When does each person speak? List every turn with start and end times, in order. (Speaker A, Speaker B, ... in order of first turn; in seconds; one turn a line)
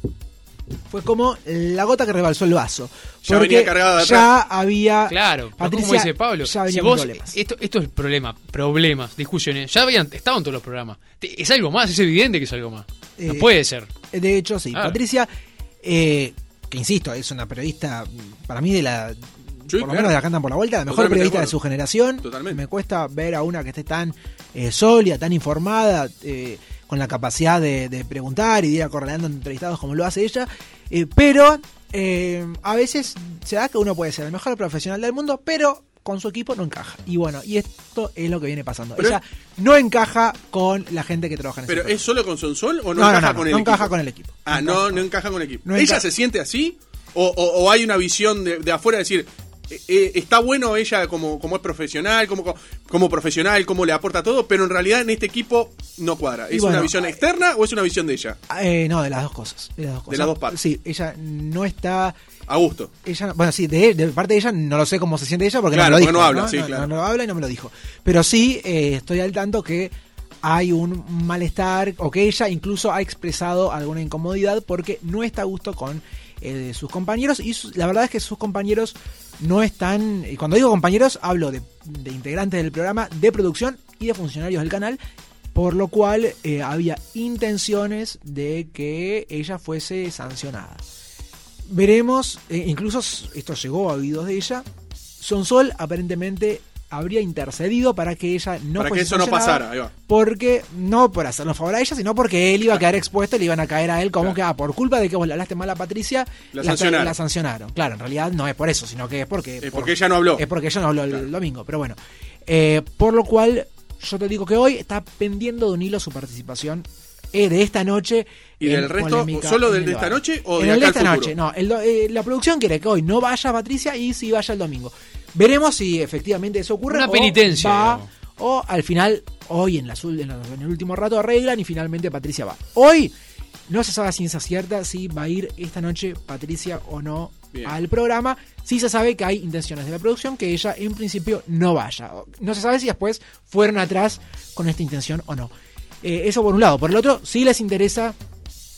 Speaker A: 0.9-7.4
Speaker B: 3.2-4.3
Speaker C: 5.1-13.9
Speaker A: 13.2-13.5
Speaker A: 14.1-15.3
Speaker C: 14.7-15.0
Speaker A: 15.8-42.1
Speaker B: 19.7-20.2
Speaker B: 20.9-21.6
Speaker B: 22.2-22.6
Speaker B: 41.7-43.9
Speaker A: 42.9-45.1
Speaker B: 44.5-58.4
Speaker A: 45.6-46.0
Speaker A: 56.5-57.2
Speaker A: 58.5-62.2
Speaker B: 60.1-60.6
Speaker B: 62.5-62.9
Speaker A: 63.0-85.0
Speaker B: 65.7-66.9
Speaker A: 85.5-90.8
Speaker A: 91.7-94.7
Speaker A: 95.2-133.1
Speaker B: 98.8-99.9
Speaker B: 106.5-107.2
Speaker B: 109.6-110.5
Speaker B: 118.6-121.3
Speaker C: 126.9-128.1
Speaker A: 133.7-148.2